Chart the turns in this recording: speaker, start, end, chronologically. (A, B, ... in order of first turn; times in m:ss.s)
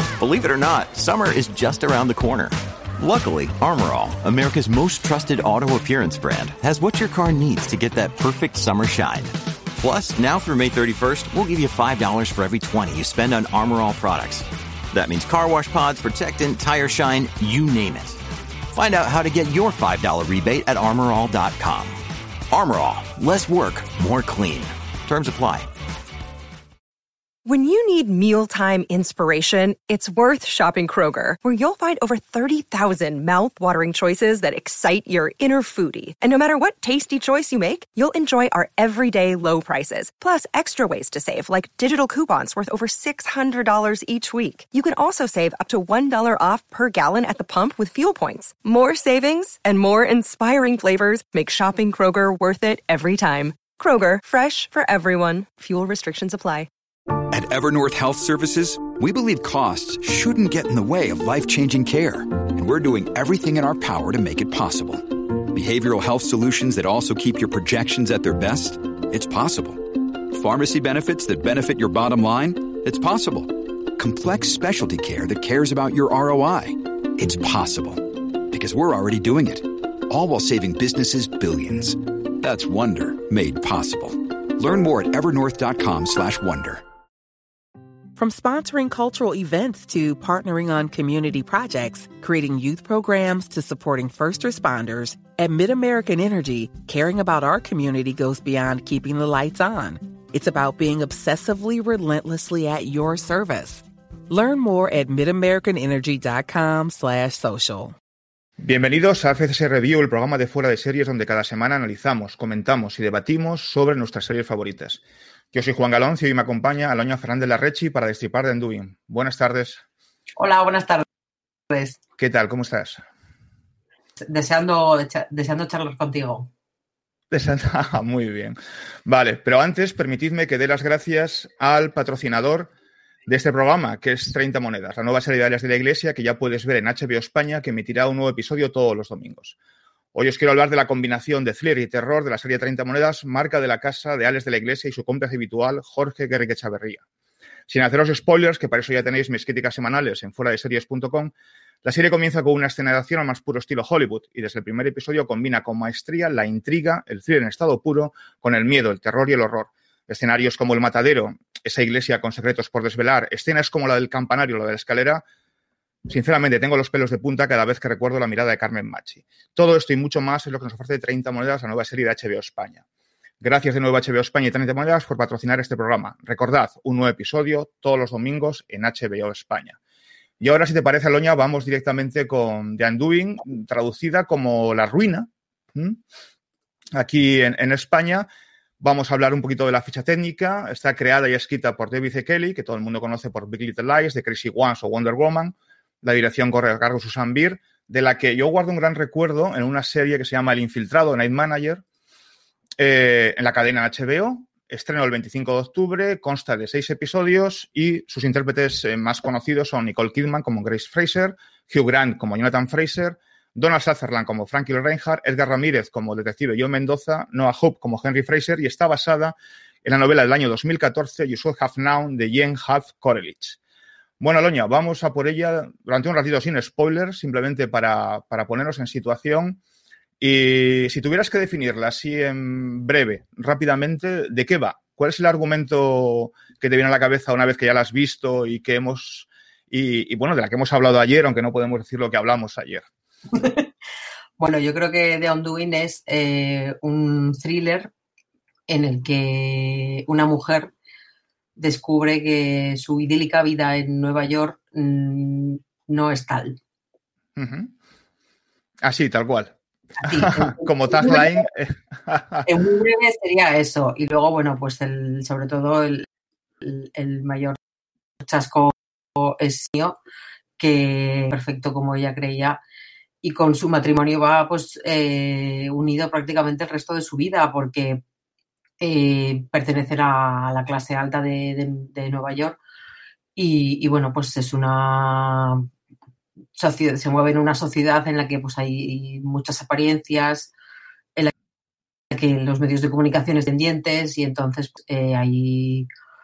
0:00.2-0:18.2 A
0:18.7-0:22.0 A
0:22.5-0:25.7 A
0:27.4-0:56.7 B
0:57.3-1:26.8 C
1:28.2-1:48.0 D
1:48.6-1:55.0 E
1:55.5-1:59.8 E
2:00.4-2:01.0 F
2:01.7-2:02.0 F
2:02.2-2:03.0 E
2:04.2-2:06.5 F
2:07.3-2:12.7 E
2:13.3-2:19.6 E
2:20.1-2:27.0 E
2:27.7-2:31.3 E
2:31.8-2:45.2 E
2:46.1-2:52.8 E
2:53.4-2:59.8 E
3:00.4-3:06.0 E
3:07.0-3:08.3 E
3:08.8-3:21.8 E
3:22.8-3:43.6 E
3:44.2-3:49.6 E
3:50.2-4:02.9 E
4:03.3-4:03.7 F
4:04.4-4:07.9 F
4:08.7-4:10.7 F
4:11.6-4:16.6 F
4:17.4-4:17.7 E
4:18.8-4:22.5 E
4:20.0-4:21.4 F
4:22.5-4:26.1 F
4:26.6-4:27.6 F
4:28.2-4:30.0 F
4:30.6-4:32.6 F
4:33.2-4:38.0 F
4:38.8-4:42.6 F
4:43.4-4:45.7 F
4:46.6-4:50.5 F
4:52.1-4:55.9 F